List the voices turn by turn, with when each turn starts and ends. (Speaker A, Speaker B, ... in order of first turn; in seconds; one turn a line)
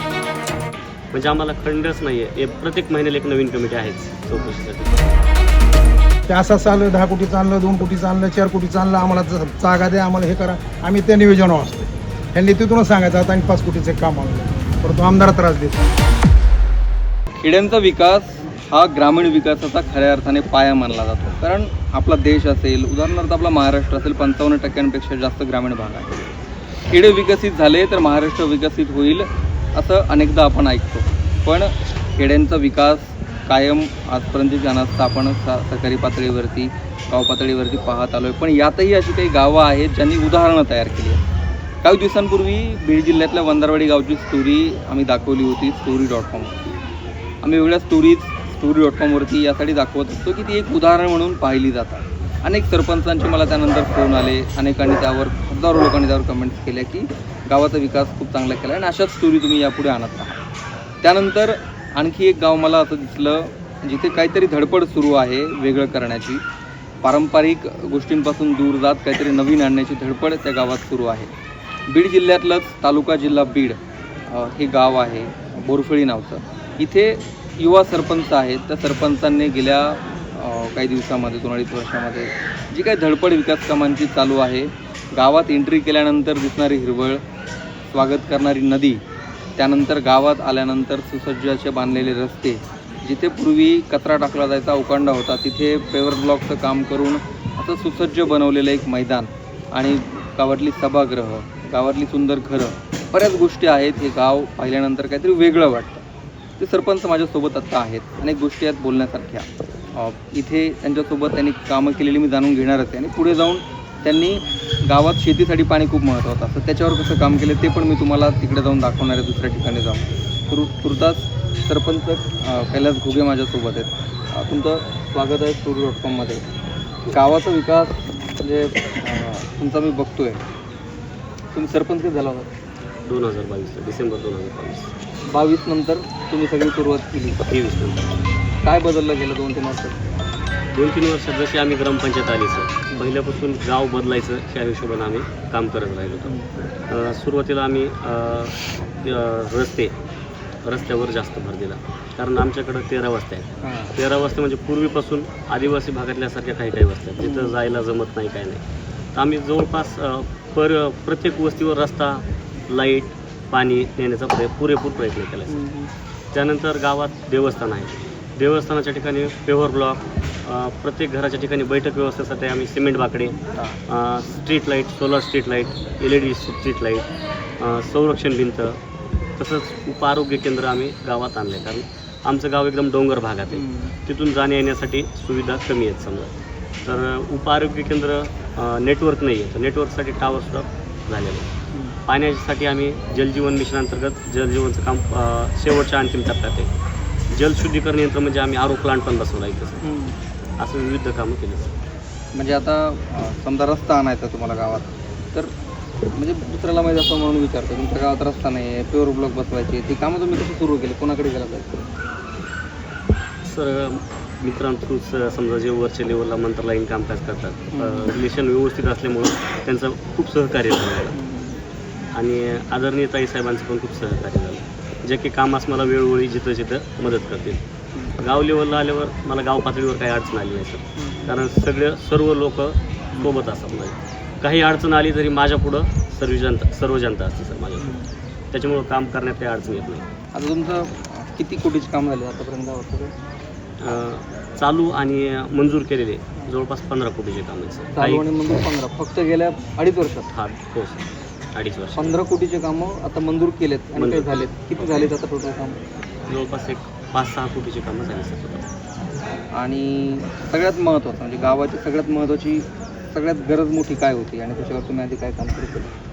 Speaker A: 1.1-5.1
Speaker B: 6.3-15.9
Speaker C: 17.4-41.2
Speaker C: 41.8-46.7
Speaker C: 47.4-60.4
Speaker C: 61.0-66.4
Speaker C: 67.0-71.3
Speaker C: 71.9-87.2
Speaker C: 87.9-89.0
Speaker C: 89.6-106.0
Speaker C: 106.6-126.4
Speaker C: 127.1-130.4
Speaker C: 131.5-132.5
Speaker A: 133.0-134.9
Speaker C: 135.3-137.4
Speaker A: 137.5-138.0
Speaker C: 138.6-140.0
Speaker A: 140.7-146.3
Speaker C: 146.2-146.5
Speaker A: 146.9-149.9
Speaker A: 150.6-158.6
Speaker C: 153.6-153.9
Speaker C: 157.2-157.6
Speaker A: 159.1-165.6
Speaker C: 165.5-165.9
Speaker A: 166.3-177.1
Speaker C: 173.4-173.8
Speaker A: 177.6-178.8
Speaker A: 179.4-186.3
Speaker C: 183.5-183.9
Speaker A: 186.8-191.5
Speaker A: 192.1-196.7
Speaker A: 197.3-199.8
Speaker C: 199.8-200.1
Speaker A: 200.6-201.7
Speaker C: 202.3-205.5
Speaker C: 206.1-211.9
Speaker A: 213.4-221.2
Speaker C: 217.7-218.2
Speaker C: 221.1-221.6
Speaker A: 222.1-227.6
Speaker A: 228.2-237.9
Speaker C: 231.0-231.3
Speaker C: 237.8-238.1
Speaker A: 238.5-240.1
Speaker C: 240.3-243.1
Speaker A: 243.8-248.3
Speaker C: 247.9-250.3
Speaker A: 250.3-252.2
Speaker C: 251.9-255.8
Speaker A: 253.9-255.1
Speaker A: 256.3-258.7
Speaker C: 259.5-266.0